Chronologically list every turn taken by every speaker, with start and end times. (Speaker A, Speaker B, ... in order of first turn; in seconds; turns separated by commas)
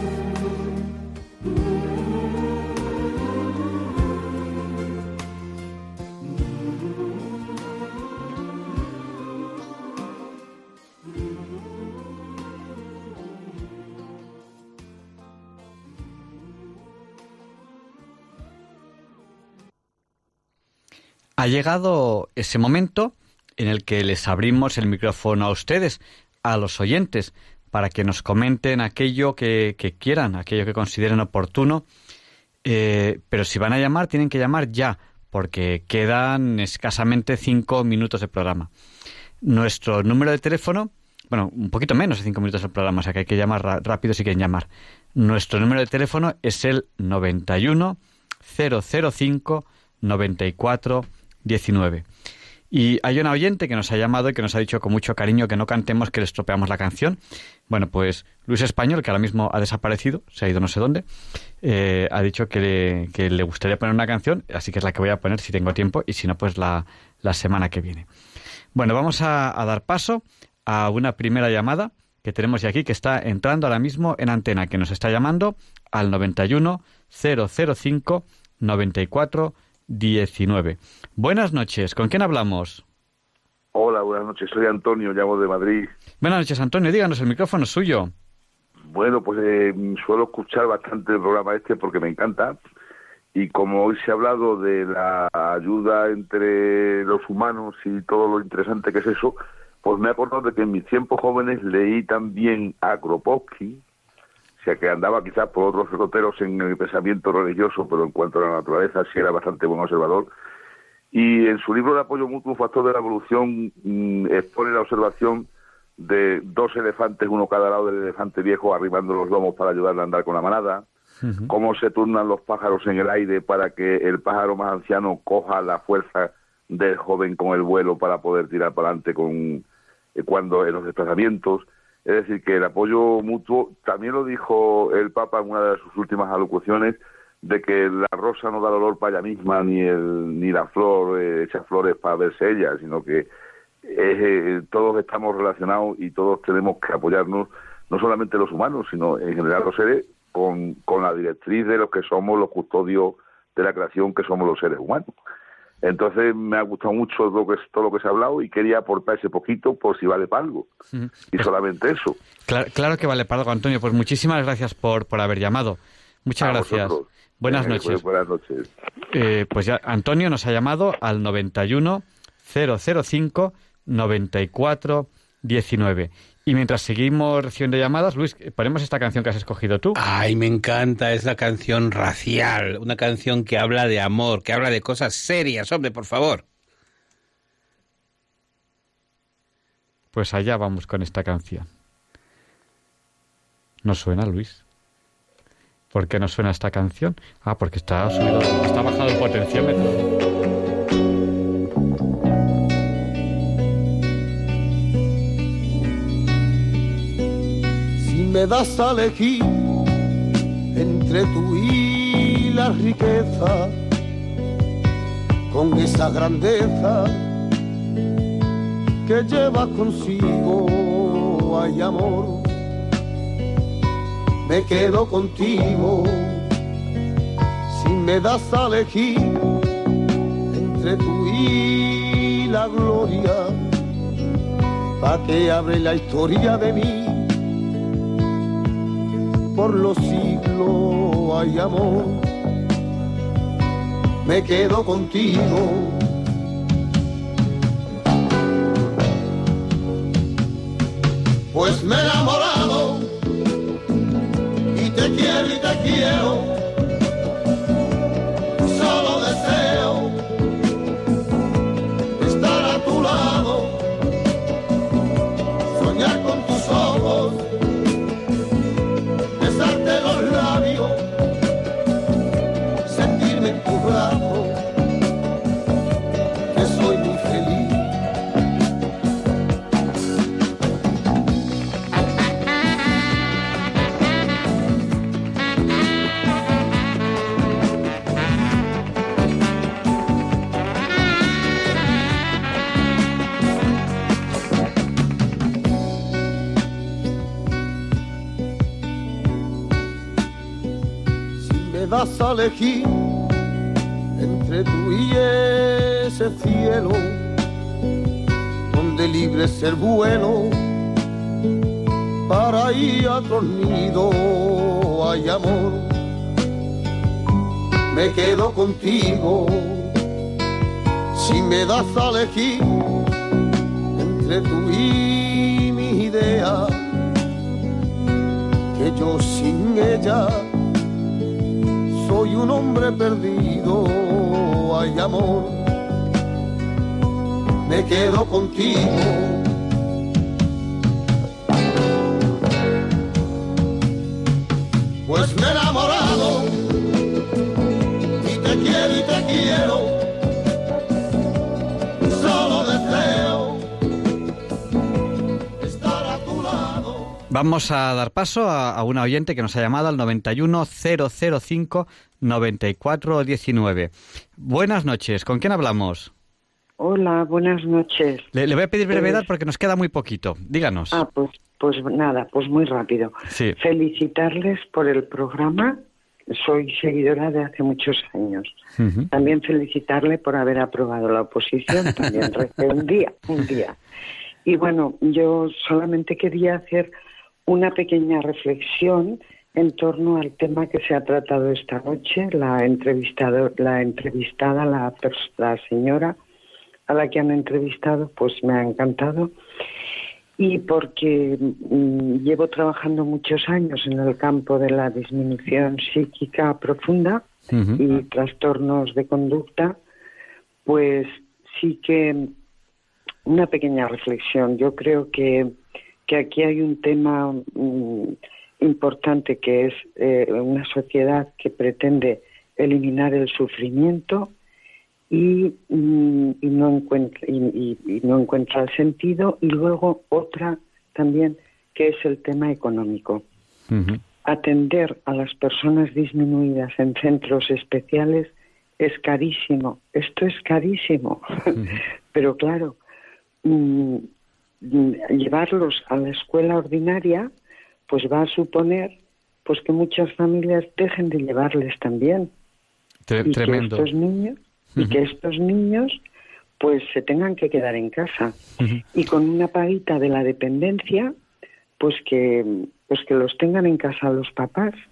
Speaker A: 21.4-31.8, Speaker A: 32.6-38.7, Speaker A: 39.4-52.0, Speaker A: 52.7-61.0, Speaker A: 61.6-68.1, Speaker A: 68.7-82.8, Speaker B: 83.7-85.9, Speaker A: 86.2-88.1, Speaker B: 88.9-92.6, Speaker B: 93.3-103.8, Speaker B: 104.6-110.3, Speaker B: 111.1-120.8, Speaker A: 121.2-121.5, Speaker B: 121.5-129.6, Speaker B: 130.2-143.3, Speaker B: 143.8-155.1, Speaker B: 155.8-160.7, Speaker A: 160.9-161.5, Speaker B: 161.3-162.2, Speaker A: 162.5-168.0, Speaker B: 166.4-168.7, Speaker A: 169.1-180.0, Speaker C: 179.9-186.4, Speaker A: 190.1-191.7, Speaker A: 193.8-194.6, Speaker A: 195.9-200.0, Speaker D: 208.0-209.6, Speaker D: 210.7-213.8, Speaker D: 215.5-217.3, Speaker D: 219.0-222.6, Speaker D: 224.4-226.4, Speaker D: 227.7-229.4, Speaker D: 230.5-233.7, Speaker D: 235.0-237.3, Speaker D: 239.5-242.3, Speaker D: 244.2-246.0, Speaker D: 251.5-253.1, Speaker D: 254.7-256.6, Speaker D: 258.6-260.2, Speaker D: 262.1-263.8, Speaker D: 265.7-267.4, Speaker D: 269.4-271.0, Speaker D: 272.9-274.6, Speaker D: 276.5-277.9, Speaker D: 301.4-302.9, Speaker D: 304.1-307.3, Speaker D: 308.7-310.6, Speaker D: 312.3-316.0, Speaker D: 317.9-319.9, Speaker D: 321.1-322.7, Speaker D: 323.9-326.8, Speaker D: 328.7-330.5, Speaker D: 331.9-335.7, Speaker D: 337.6-339.5, Speaker D: 345.0-346.6, Speaker D: 348.2-350.0, Speaker D: 352.0-353.6, Speaker D: 355.6-357.1, Speaker A: 357.3-366.1, Speaker E: 366.8-368.3, Speaker A: 368.3-371.0, Speaker E: 368.9-369.3, Speaker E: 370.9-375.8, Speaker A: 373.3-373.6, Speaker E: 376.3-378.5, Speaker A: 378.8-379.1, Speaker E: 379.1-383.8, Speaker E: 384.4-386.9, Speaker E: 387.5-396.1, Speaker E: 396.9-399.3, Speaker E: 400.4-409.8, Speaker A: 407.5-407.8, Speaker E: 410.6-412.3, Speaker E: 413.2-415.5, Speaker E: 416.1-424.3, Speaker E: 425.1-433.2, Speaker A: 433.7-434.0, Speaker E: 434.2-442.8, Speaker E: 443.4-444.1, Speaker E: 444.6-447.3, Speaker E: 447.9-452.3, Speaker A: 453.1-453.9, Speaker E: 453.2-456.0, Speaker E: 456.6-458.4, Speaker E: 458.9-461.1, Speaker E: 461.8-464.8